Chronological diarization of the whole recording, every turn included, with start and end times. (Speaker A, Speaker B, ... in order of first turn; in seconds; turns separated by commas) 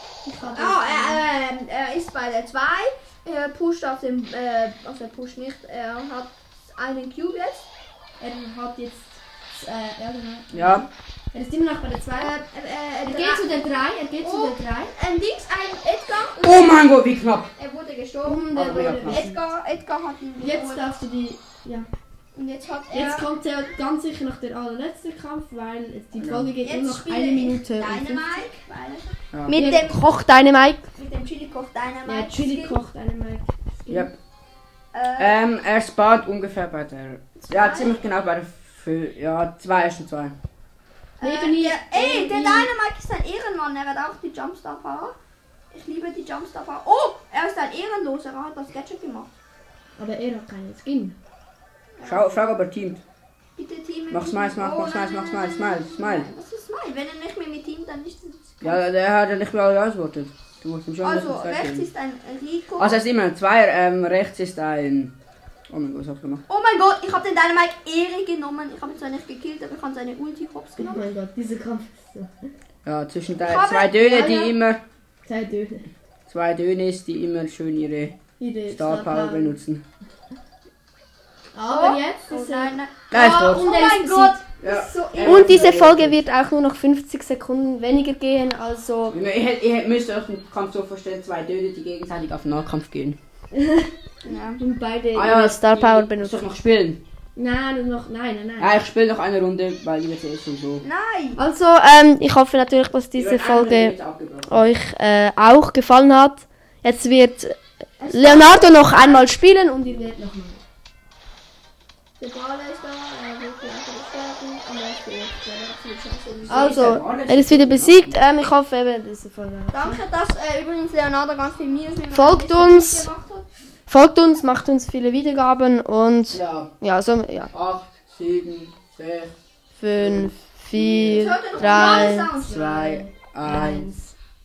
Speaker A: 0.2-1.2, Speaker B: 0.4-7.7, Speaker A: 8.2-12.3, Speaker C: 10.5-10.8, Speaker B: 12.2-16.9, Speaker A: 13.0-14.9, Speaker C: 16.4-17.5, Speaker B: 17.6-20.9, Speaker A: 18.2-19.4, Speaker C: 18.5-19.3, Speaker A: 20.4-21.9, Speaker B: 22.3-23.3, Speaker A: 22.9-28.4, Speaker C: 26.2-26.5, Speaker B: 26.6-30.1, Speaker C: 29.3-29.6, Speaker A: 29.5-30.9, Speaker B: 30.9-32.8, Speaker A: 32.0-34.1, Speaker B: 34.9-35.4, Speaker C: 35.2-40.3, Speaker B: 37.4-38.0, Speaker B: 41.2-45.1, Speaker A: 41.2-42.7, Speaker B: 45.7-49.3, Speaker A: 50.0-51.1, Speaker B: 51.9-52.4, Speaker C: 52.0-53.0, Speaker B: 53.5-58.8, Speaker C: 54.1-56.3, Speaker C: 58.6-61.9, Speaker B: 61.0-63.0, Speaker C: 62.8-65.1, Speaker C: 65.7-66.4, Speaker B: 66.5-71.1, Speaker A: 70.8-72.3, Speaker C: 72.8-74.8, Speaker B: 73.4-74.3, Speaker A: 74.0-74.5, Speaker A: 75.2-75.9, Speaker C: 76.3-78.1, Speaker A: 78.4-79.6, Speaker C: 78.7-79.8, Speaker A: 81.5-84.4, Speaker B: 81.7-85.9, Speaker C: 83.1-83.7, Speaker C: 84.6-86.2, Speaker A: 85.2-89.2, Speaker C: 89.1-93.2, Speaker A: 93.5-93.9, Speaker B: 94.2-94.6, Speaker A: 94.6-96.4, Speaker C: 95.1-97.0, Speaker A: 97.3-98.8, Speaker C: 98.6-100.8, Speaker B: 100.8-101.4, Speaker A: 101.4-103.9, Speaker C: 103.2-104.7, Speaker A: 104.5-110.6, Speaker B: 108.0-109.3, Speaker B: 112.2-116.8, Speaker C: 116.5-118.1, Speaker A: 116.5-120.0, Speaker B: 119.7-123.5, Speaker A: 122.1-123.1, Speaker A: 123.9-127.5, Speaker C: 126.3-126.7, Speaker C: 127.5-129.3, Speaker A: 129.7-134.1, Speaker C: 129.9-133.9, Speaker B: 131.1-132.6